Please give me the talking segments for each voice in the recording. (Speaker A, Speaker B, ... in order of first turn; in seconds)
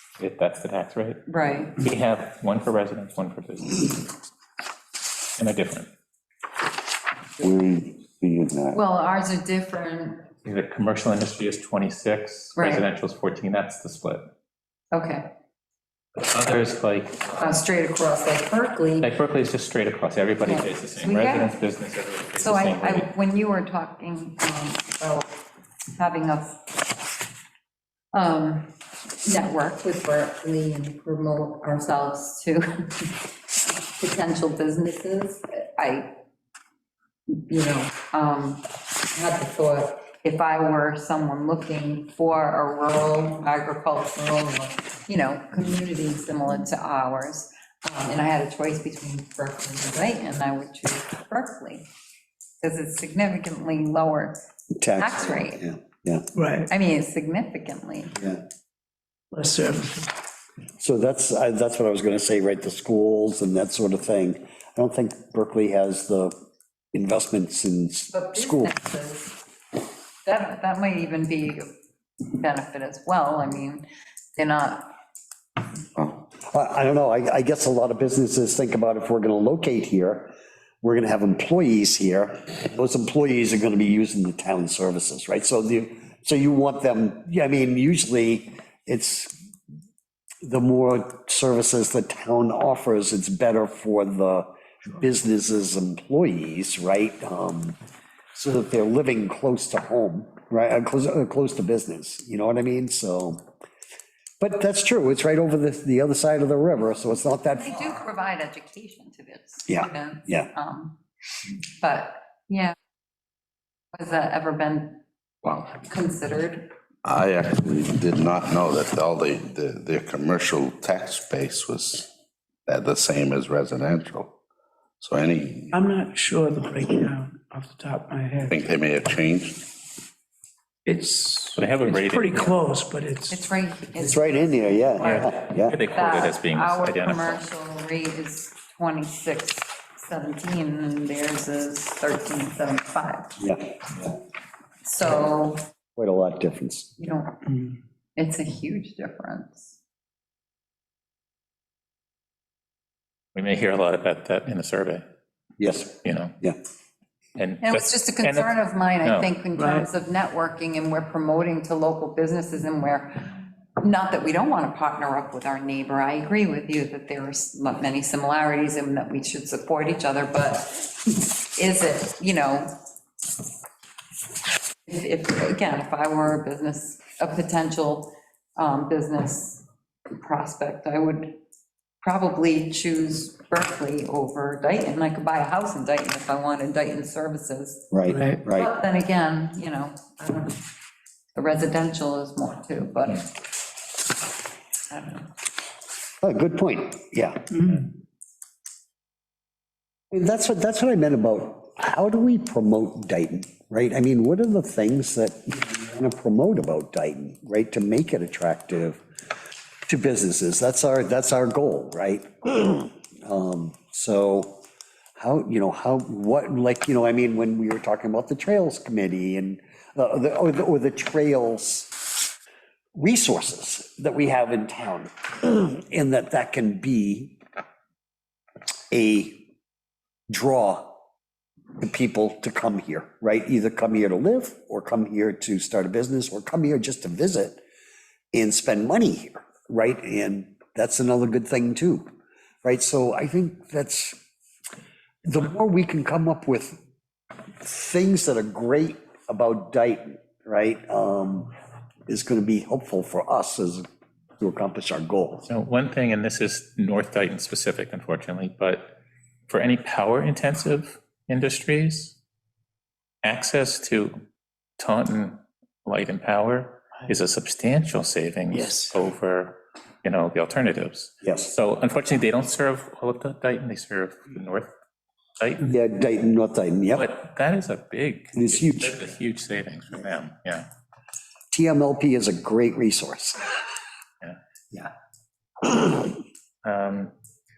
Speaker A: 0.2-1.2, 1.8-4.0, 5.4-5.9, 10.4-14.3, 16.2-17.5, 19.0-23.1, 131.6-132.5, 135.0-137.4, 153.3-155.1, 156.0-156.4, 157.4-158.5, 159.0-159.3, 255.5-259.0, 259.5-262.2, 263.2-264.2, 264.8-274.7, 275.4-275.8, 276.9-280.7, 286.6-287.1
Speaker B: 1.3-1.8, 8.7-10.3, 12.6-12.9, 14.9-15.3, 17.4-19.1, 20.4-21.6, 22.4-25.3, 25.9-26.9, 28.1-36.1, 37.3-51.9, 52.6-54.4, 55.0-55.6, 56.7-58.2, 68.1-69.4, 70.2-71.7, 72.3-74.9, 107.5-111.0, 111.8-112.8, 113.9-115.0, 115.8-116.7, 133.3-143.4, 144.8-145.6, 147.0-147.5, 148.2-149.8, 157.6-172.7, 174.9-179.7, 180.2-181.4, 182.0-187.9, 188.5-190.6, 191.3-193.3, 194.9-195.3
Speaker C: 7.4-8.8, 115.4-115.8, 117.0-122.1, 122.7-124.3, 125.0-125.8, 128.5-129.7
Speaker D: 54.8-56.3, 60.8-66.3, 66.9-68.7, 76.4-89.4, 90.4-97.8, 98.3-103.4, 104.4-108.0, 109.7-110.5, 134.0-135.8, 143.4-143.7, 146.0-146.9, 155.6-156.6, 187.9-188.7, 196.2-197.9, 200.1-209.0, 209.9-214.6, 215.2-221.9, 222.9-227.4, 228.9-229.5, 230.3-230.9, 231.8-237.6, 238.3-242.1, 242.6-244.2, 245.2-246.8, 247.6-251.5, 252.1-253.8, 254.4-255.5, 271.2-271.5, 275.7-277.1, 278.3-279.0, 281.5-283.5
Speaker E: 56.4-56.7, 59.3-60.1, 125.7-128.7, 130.9-133.5, 159.6-159.9, 188.1-188.4, 197.5-197.8, 268.5-269.0